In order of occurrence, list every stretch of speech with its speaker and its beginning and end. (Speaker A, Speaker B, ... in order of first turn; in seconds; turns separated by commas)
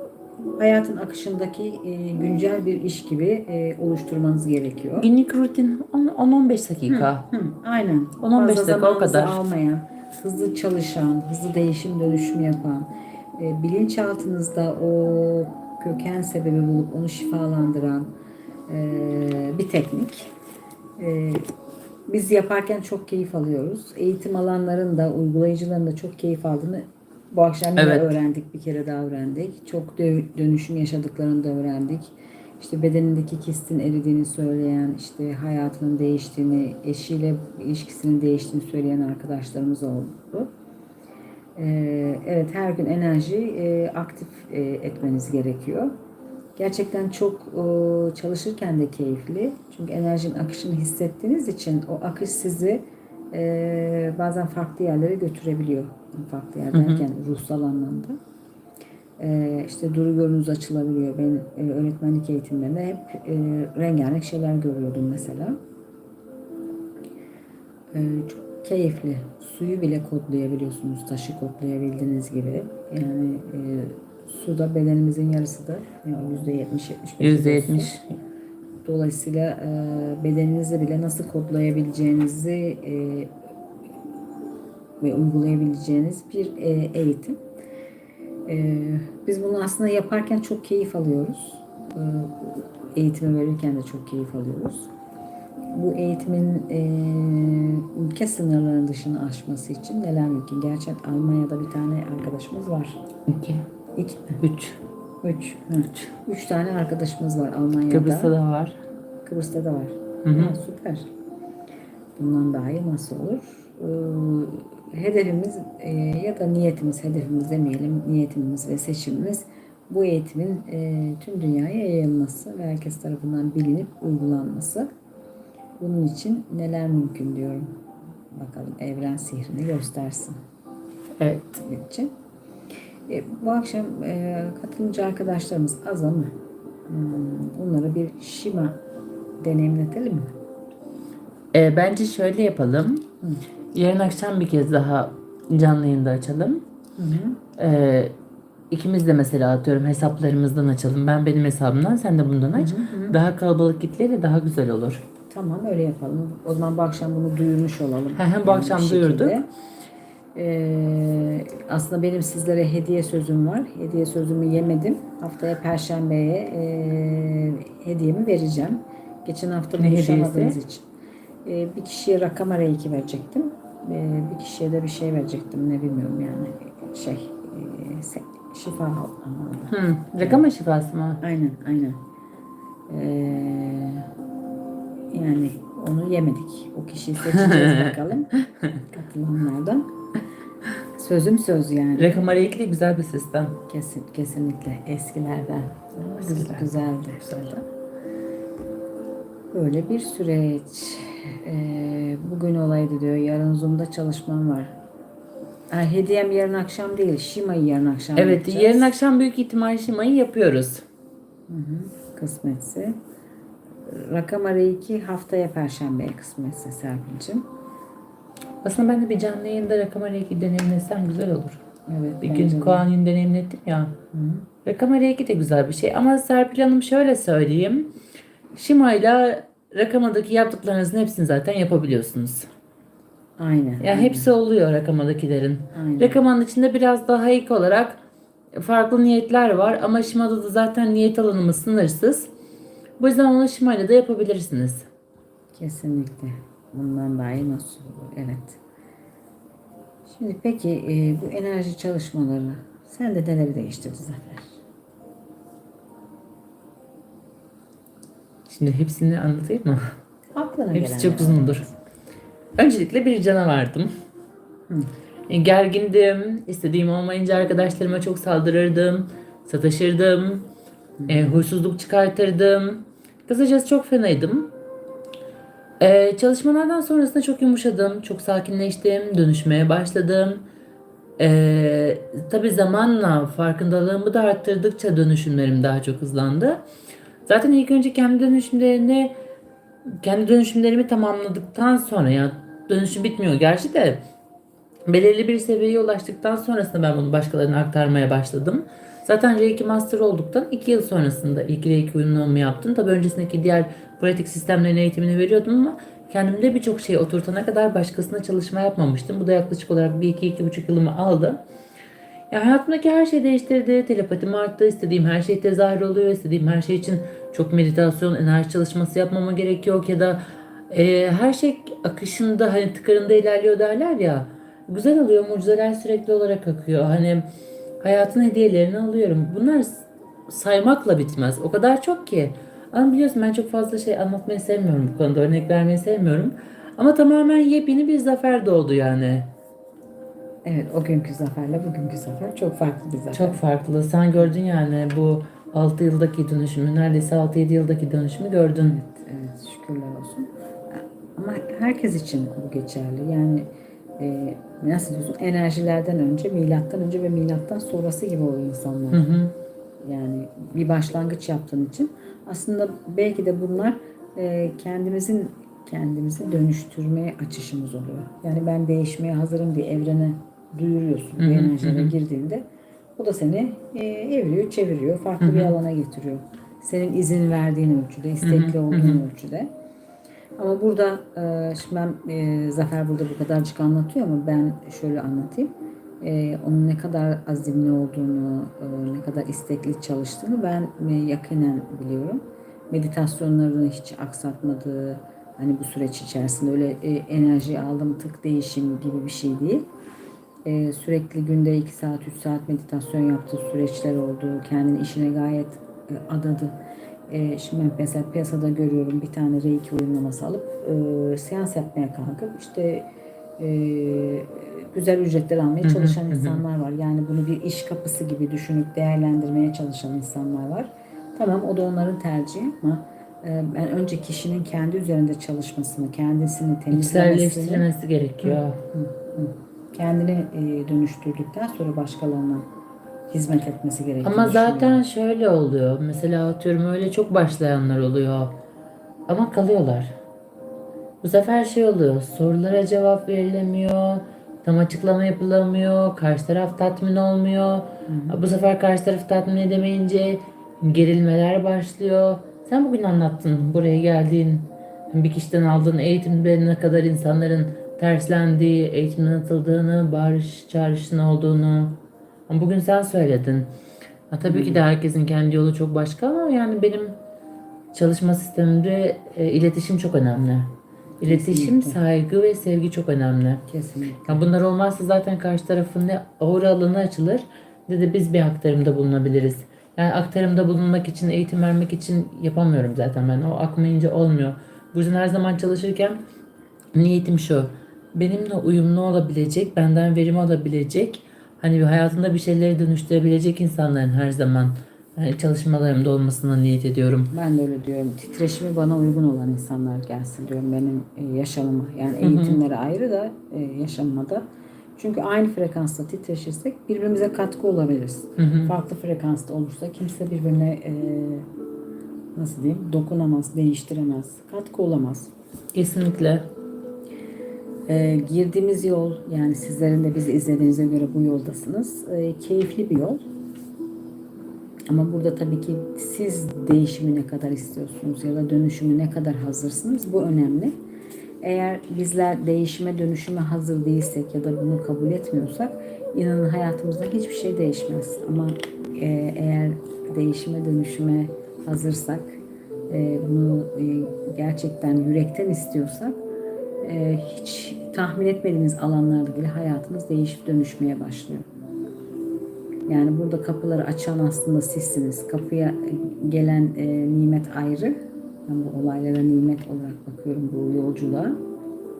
Speaker A: 0.6-5.1, Speaker B: 5.0-7.2, Speaker A: 6.9-18.1, Speaker B: 8.2-9.4, Speaker A: 18.7-20.3, Speaker A: 21.0-21.4, Speaker A: 22.1-40.5, Speaker B: 27.8-28.1, Speaker A: 41.5-45.9, Speaker A: 46.6-52.8, Speaker A: 53.3-58.1, Speaker B: 56.7-57.0, Speaker A: 59.2-65.5, Speaker A: 67.9-77.9, Speaker B: 77.2-78.2, Speaker A: 78.8-83.3, Speaker A: 85.0-87.4, Speaker A: 88.5-94.9, Speaker A: 95.7-103.0, Speaker B: 103.3-103.6, Speaker A: 104.0-104.4, Speaker B: 104.4-104.8, Speaker A: 105.2-108.3, Speaker B: 107.9-108.8, Speaker A: 109.2-111.0, Speaker B: 110.2-110.6, Speaker A: 112.2-124.9, Speaker A: 125.8-127.7, Speaker A: 128.3-130.3, Speaker B: 131.2-131.6, Speaker A: 131.6-132.1, Speaker A: 133.1-136.3, Speaker A: 136.9-138.8, Speaker A: 139.4-140.3, Speaker B: 141.5-143.0, Speaker B: 143.7-146.6, Speaker A: 147.0-147.4, Speaker B: 147.6-148.1, Speaker B: 148.7-155.0, Speaker A: 152.5-153.2, Speaker A: 155.3-159.4, Speaker B: 158.1-159.4, Speaker A: 160.3-170.8, Speaker B: 169.8-170.6, Speaker A: 171.4-180.4, Speaker B: 179.7-181.2, Speaker A: 181.2-182.0, Speaker A: 182.9-184.1, Speaker A: 185.1-188.3, Speaker B: 187.2-188.8, Speaker A: 188.9-189.9, Speaker A: 191.0-192.2, Speaker B: 192.0-193.6, Speaker A: 193.7-197.6, Speaker B: 196.2-196.7, Speaker A: 199.5-204.7, Speaker A: 205.7-208.9, Speaker B: 208.2-210.8, Speaker A: 211.5-212.9, Speaker A: 213.9-217.5, Speaker B: 218.6-221.6, Speaker A: 221.9-222.9, Speaker B: 222.2-223.9, Speaker A: 224.1-224.4, Speaker B: 224.6-227.9, Speaker B: 228.5-232.5, Speaker A: 233.4-234.3, Speaker B: 233.8-238.0, Speaker A: 235.7-236.2, Speaker B: 238.6-242.3, Speaker B: 243.0-244.9, Speaker A: 245.5-248.6, Speaker A: 250.1-254.6, Speaker B: 258.5-259.9, Speaker A: 260.3-261.7, Speaker B: 260.7-261.6, Speaker B: 262.6-263.9, Speaker B: 265.3-270.5, Speaker A: 271.0-271.4, Speaker B: 271.1-274.5, Speaker B: 275.8-280.4, Speaker B: 281.2-286.6, Speaker B: 287.2-289.1, Speaker B: 290.0-294.0, Speaker B: 294.9-311.4, Speaker B: 312.3-327.3, Speaker B: 327.8-339.3, Speaker A: 340.4-343.4, Speaker B: 343.1-348.8, Speaker A: 348.6-353.4, Speaker A: 354.0-359.1, Speaker B: 358.9-359.3, Speaker A: 359.8-372.4, Speaker B: 371.2-371.9, Speaker A: 373.0-379.5, Speaker B: 375.2-375.5, Speaker B: 378.2-379.0, Speaker A: 380.4-399.6, Speaker A: 400.4-406.5, Speaker A: 407.1-412.9, Speaker A: 413.4-427.7, Speaker B: 415.6-416.4, Speaker B: 426.7-428.6, Speaker A: 428.2-432.5, Speaker A: 433.1-434.8, Speaker B: 434.0-438.4, Speaker B: 439.1-439.9, Speaker B: 441.0-463.5, Speaker A: 447.9-448.2, Speaker B: 464.1-467.0, Speaker A: 464.2-464.6, Speaker B: 467.7-473.4, Speaker A: 471.0-471.8, Speaker A: 473.5-474.2, Speaker B: 474.1-486.0, Speaker B: 486.7-497.1, Speaker A: 497.1-504.2, Speaker B: 502.0-502.4, Speaker A: 504.8-511.2, Speaker B: 508.2-508.5, Speaker A: 512.1-515.1, Speaker B: 515.5-516.3, Speaker A: 517.7-523.0, Speaker A: 524.7-530.5, Speaker A: 531.2-546.0, Speaker A: 546.6-551.2, Speaker A: 552.7-557.7, Speaker A: 558.3-561.2